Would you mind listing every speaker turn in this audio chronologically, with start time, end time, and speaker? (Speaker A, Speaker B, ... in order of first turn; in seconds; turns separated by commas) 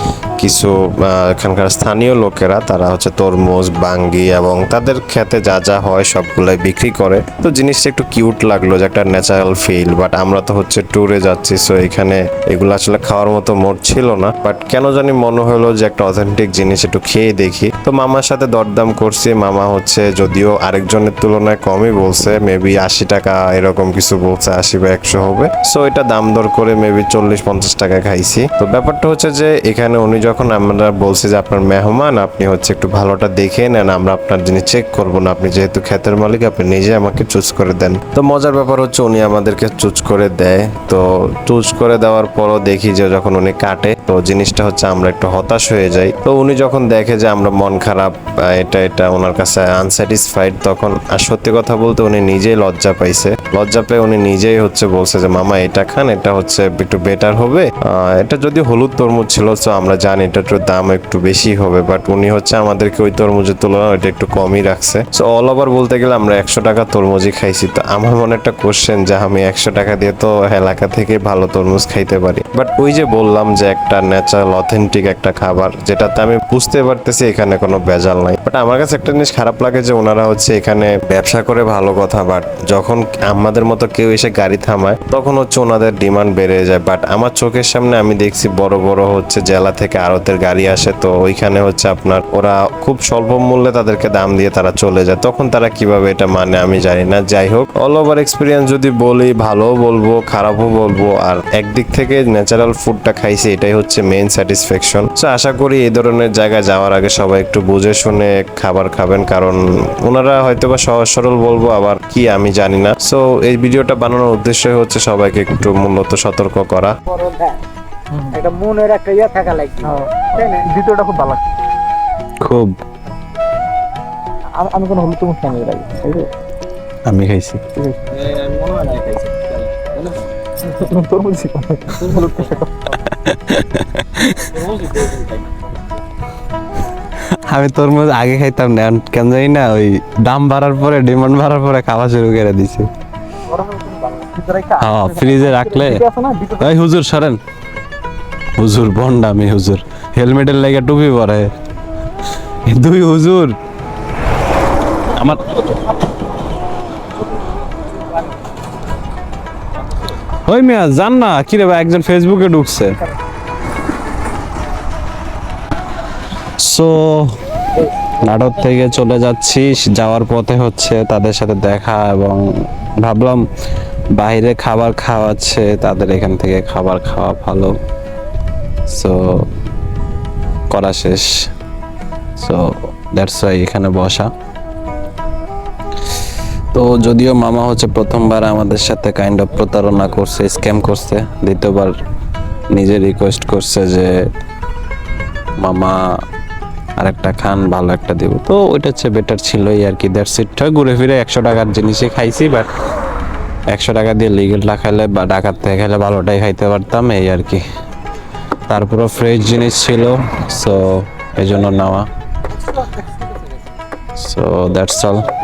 Speaker A: 0.4-117.0, Speaker B: 117.1-117.6, Speaker C: 118.2-118.4, Speaker B: 118.3-120.7, Speaker C: 119.8-121.4, Speaker D: 122.4-122.8, Speaker C: 124.6-126.3, Speaker D: 127.1-127.7, Speaker C: 127.8-128.2, Speaker B: 128.1-130.2, Speaker C: 130.6-132.8, Speaker D: 132.9-135.2, Speaker D: 137.3-142.9, Speaker C: 143.5-146.7, Speaker D: 144.8-146.0, Speaker D: 146.6-147.4, Speaker D: 148.6-151.5, Speaker D: 152.7-153.6, Speaker D: 155.2-155.6, Speaker D: 160.4-163.0, Speaker D: 166.6-167.4, Speaker D: 168.2-173.4, Speaker D: 174.2-177.8, Speaker D: 178.9-179.5, Speaker D: 180.7-181.5, Speaker D: 182.4-184.3, Speaker D: 186.7-192.0, Speaker D: 192.7-194.3, Speaker D: 195.6-196.0, Speaker D: 197.0-202.7, Speaker D: 203.7-207.6, Speaker D: 208.7-212.1, Speaker D: 214.2-215.3